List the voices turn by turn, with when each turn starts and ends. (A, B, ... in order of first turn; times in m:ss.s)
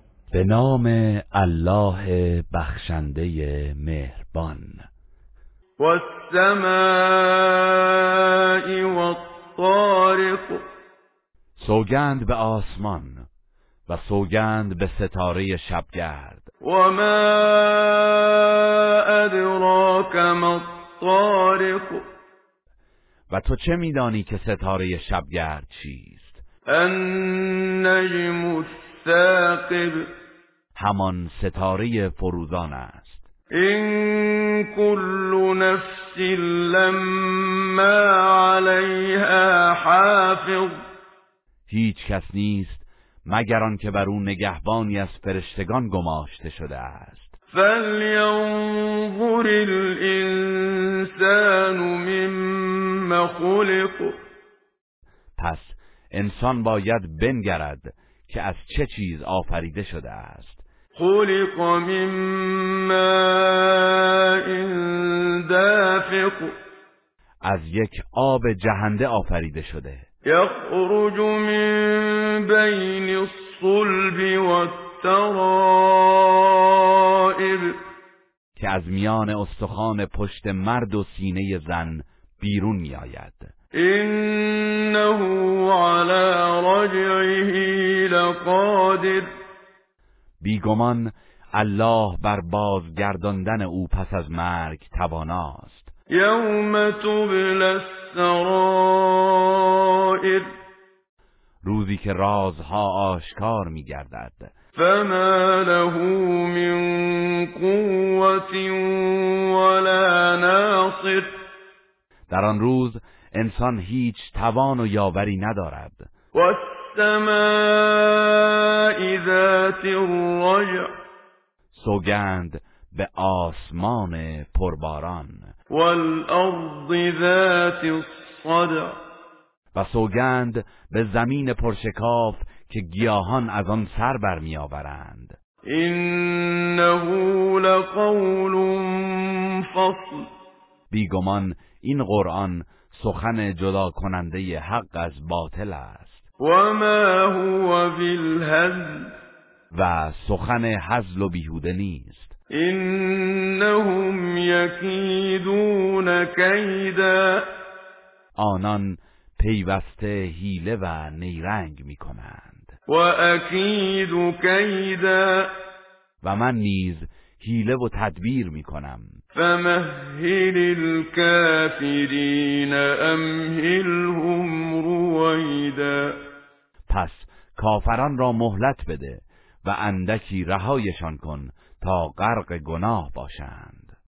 0:00.3-0:04.8 A
0:05.8-0:10.6 B
0:11.6-0:13.3 A
0:13.9-0:16.5 A
0:16.6-0:22.0 B
0:23.3-0:26.4 A
0:26.7-0:30.0 B
0:30.8-0:33.2 A
0:33.5-0:40.8 B
0:41.7-0:47.3 A
0:47.5-0:54.1 B
0:55.4-1:00.6 A
1:00.9-1:06.5 B
1:07.4-1:10.1 A
1:10.2-1:17.8 B
1:18.6-1:23.5 A
1:23.7-1:29.3 B
1:30.4-1:35.9 A
1:36.1-1:40.5 B
1:41.6-1:44.5 A
1:44.8-1:51.3 B
1:52.3-1:56.1 A
1:56.3-2:00.9 B
2:01.7-2:05.5 A
2:05.7-2:08.9 B
2:09.7-2:15.4 A
2:15.6-2:20.3 B
2:20.9-2:26.2 A
2:26.4-2:29.1 B
2:29.7-2:32.3 A
2:32.5-2:37.4 B
2:38.4-2:42.7 A
2:42.9-2:45.5 B
2:46.2-2:49.2 A
2:49.3-2:56.2 B
2:56.9-3:03.9 A